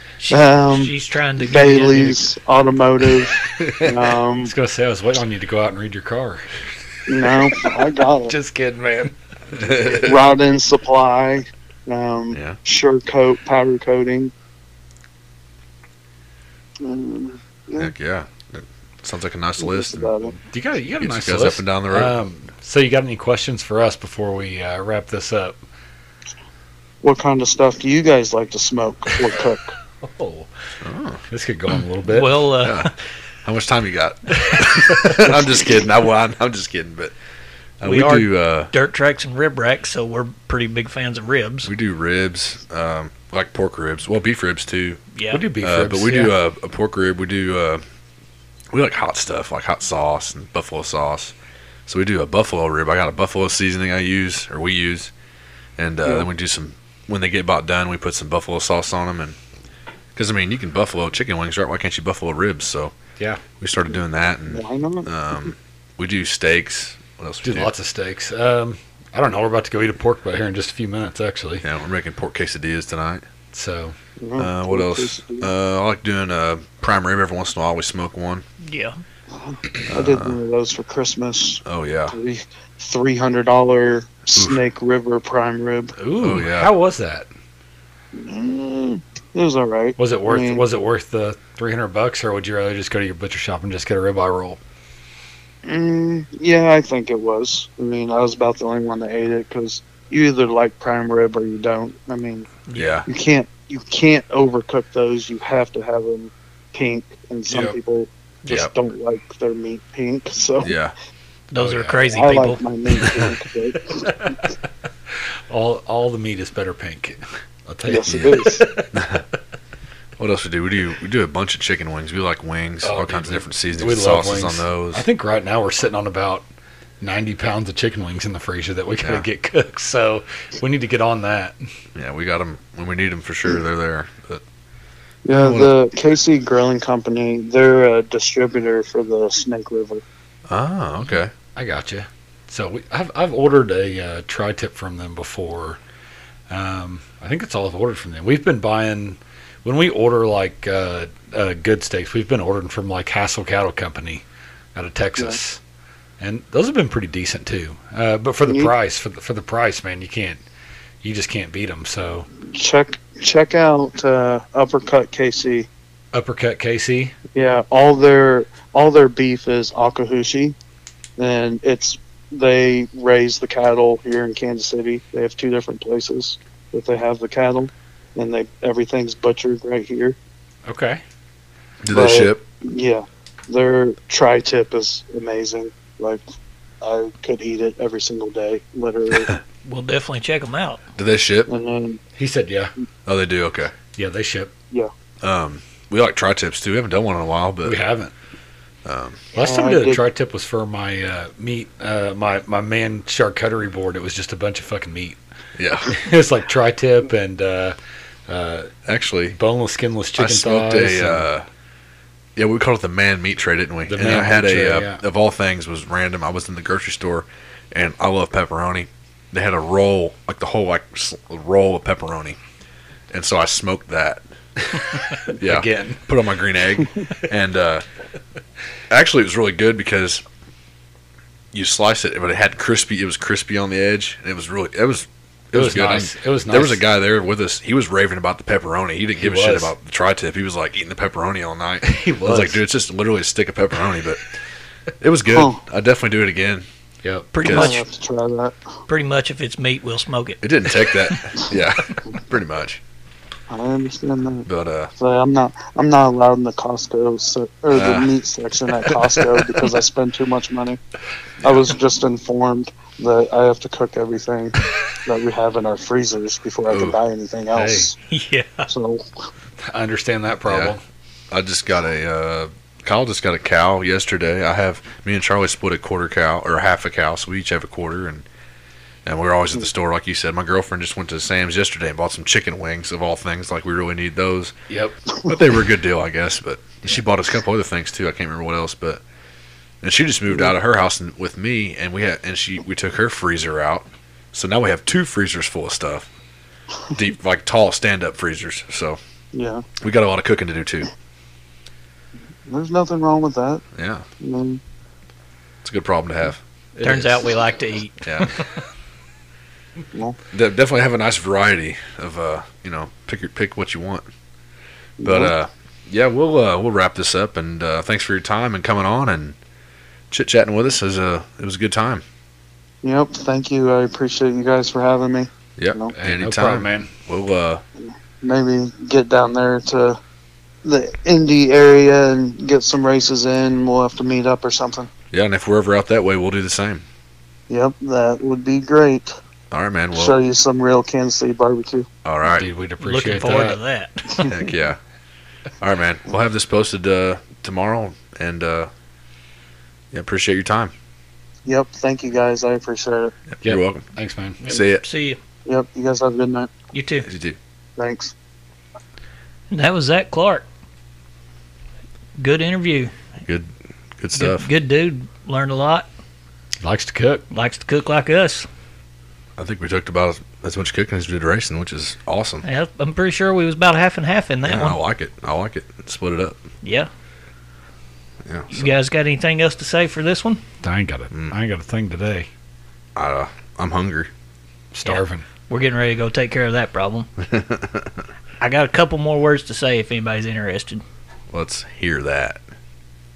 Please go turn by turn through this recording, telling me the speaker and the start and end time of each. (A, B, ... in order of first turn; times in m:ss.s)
0:00.2-0:02.3 A
0:00.3-0:04.5 B
0:03.6-0:03.9 C
0:04.4-0:06.5 D
0:07.1-0:08.3 B
0:08.3-0:09.2 D
0:09.6-0:10.2 C
0:10.0-0:14.3 B
0:12.3-0:12.6 C
0:16.8-0:17.9 B
0:17.8-0:20.1 C
0:19.6-0:20.3 B
0:20.4-0:25.6 D
0:21.0-0:22.1 C
0:27.0-0:29.8 B
0:30.0-0:30.5 D
0:30.8-0:31.2 C
0:31.3-0:32.4 D
0:32.0-0:32.9 A
0:32.6-0:32.9 C
0:33.4-0:37.2 C
0:34.5-0:35.3 D
0:37.8-0:38.7 C
0:37.8-0:41.7 A
0:41.6-0:45.0 C
0:45.1-0:45.4 A
0:45.3-0:46.3 D
0:45.6-0:47.8 C
0:48.7-0:51.3 C
0:51.9-0:55.1 C
0:55.8-0:59.4 C
1:00.1-1:02.9 C
1:03.2-1:03.4 D
1:03.6-1:07.7 C
1:04.5-1:05.1 B
1:07.4-1:11.6 D
1:11.6-1:13.2 C
1:13.5-1:14.0 D
1:14.2-1:15.5 B
1:14.4-1:18.4 C
1:18.6-1:19.0 A
1:19.4-1:26.0 B
1:19.9-1:20.4 C
1:21.6-1:22.1 C
1:24.3-1:24.6 C
1:26.0-1:27.3 D
1:26.2-1:26.7 C
1:28.1-1:30.6 B
1:30.0-1:34.6 D
1:35.6-1:42.5 B
1:42.7-1:43.0 A
1:42.7-1:43.1 C
1:43.1-1:50.7 B
1:47.5-1:47.8 D
1:48.4-1:48.7 C
1:50.6-1:50.9 C
1:51.5-1:52.6 A
1:51.6-1:52.0 D
1:52.1-1:54.4 B
1:55.1-1:59.0 D
1:57.9-1:58.6 B
1:58.9-1:59.2 C
2:00.2-2:05.0 C
2:02.8-2:06.4 D
2:07.0-2:11.6 D
2:09.0-2:09.2 C
2:11.9-2:14.4 C
2:15.2-2:20.0 B
2:15.3-2:15.7 C
2:20.5-2:21.3 C
2:21.6-2:25.8 D
2:26.5-2:35.6 D
2:36.2-2:40.4 D
2:38.4-2:38.7 B
2:41.0-2:42.3 D
2:42.5-2:45.7 B
2:46.1-2:47.1 D
2:47.3-2:50.6 B
2:51.2-3:00.2 B
3:00.6-3:01.0 D
3:01.8-3:02.4 C
3:01.9-3:06.2 B
3:06.8-3:09.3 B
3:09.1-3:09.4 C
3:09.6-3:10.8 A
3:11.0-3:11.5 C
3:11.5-3:12.0 B
3:12.2-3:12.7 D
3:13.0-3:13.7 C
3:13.9-3:14.5 D
3:15.2-3:17.8 C
3:17.6-3:18.1 D
3:18.8-3:19.3 C
3:19.3-3:20.0 B
3:19.4-3:25.2 D
3:25.6-3:26.0 C
3:25.9-3:27.8 D
3:28.3-3:28.7 D
3:28.8-3:29.4 C
3:29.3-3:31.2 D
3:30.2-3:31.5 C
3:32.4-3:42.4 C
3:33.9-3:35.0 D
3:43.1-3:44.2 C
3:44.8-3:46.0 D
3:45.4-3:47.8 C
3:48.9-3:50.2 C
3:51.5-4:04.2 C
3:55.5-3:56.8 D
3:59.2-3:59.7 D
4:01.8-4:02.6 D
4:05.0-4:06.6 C
4:05.3-4:05.6 B
4:07.0-4:07.3 D
4:07.3-4:07.9 A
4:07.4-4:07.7 C
4:07.4-4:08.6 B
4:08.9-4:11.2 A
4:10.4-4:12.8 C
4:13.5-4:20.8 B
4:14.4-4:14.9 C
4:17.7-4:18.1 C
4:21.4-4:21.8 C
4:21.4-4:28.0 B
4:26.7-4:27.0 C
4:27.5-4:27.9 D
4:28.1-4:28.7 A
4:28.7-4:29.0 B
4:29.6-4:30.8 D
4:30.4-4:30.7 C
4:31.3-4:38.2 C
4:39.0-4:44.5 C
4:44.7-4:45.0 D
4:45.3-4:49.0 C
4:49.8-4:56.1 C
4:56.9-4:59.0 C
4:59.3-4:59.6 B
4:59.8-5:00.9 C
5:02.4-5:03.6 B
5:03.7-5:04.0 C
5:04.2-5:04.6 B
5:05.6-5:07.3 C
5:06.8-5:08.5 A
5:08.0-5:08.3 C
5:10.3-5:14.1 C
5:15.0-5:15.3 B
5:15.0-5:19.4 C
5:20.1-5:22.0 C
5:22.8-5:25.9 B
5:25.6-5:27.6 C
5:26.0-5:26.9 D
5:27.8-5:30.0 B
5:30.6-5:34.9 B
5:35.1-5:36.8 C
5:37.5-5:39.1 B
5:39.5-5:40.2 C
5:39.9-5:41.9 B
5:42.0-5:42.5 C
5:42.3-5:43.6 D
5:42.8-5:44.3 A
5:44.2-5:44.8 C
5:45.6-5:48.7 C
5:49.9-5:50.7 C
5:51.4-5:53.1 B
5:53.3-5:53.9 C
5:53.4-5:54.4 D
5:54.4-5:55.2 A
5:54.4-5:54.8 C
5:55.4-5:56.5 B
5:56.7-5:57.1 A
5:57.0-5:57.4 C
5:57.8-5:58.1 B
5:59.5-6:00.4 A
6:02.2-6:02.9 A
6:03.2-6:04.5 C
6:04.1-6:05.9 A
6:06.6-6:07.2 D
6:07.3-6:08.5 A
6:09.4-6:12.4 C
6:12.4-6:14.8 A
6:14.4-6:16.4 C
6:16.6-6:16.9 A
6:18.2-6:18.7 C
6:18.5-6:20.4 A
6:20.6-6:22.3 D
6:23.0-6:24.1 C
6:24.7-6:25.2 D
6:24.8-6:27.1 A
6:27.2-6:28.0 C
6:28.4-6:30.8 A
6:31.3-6:32.4 C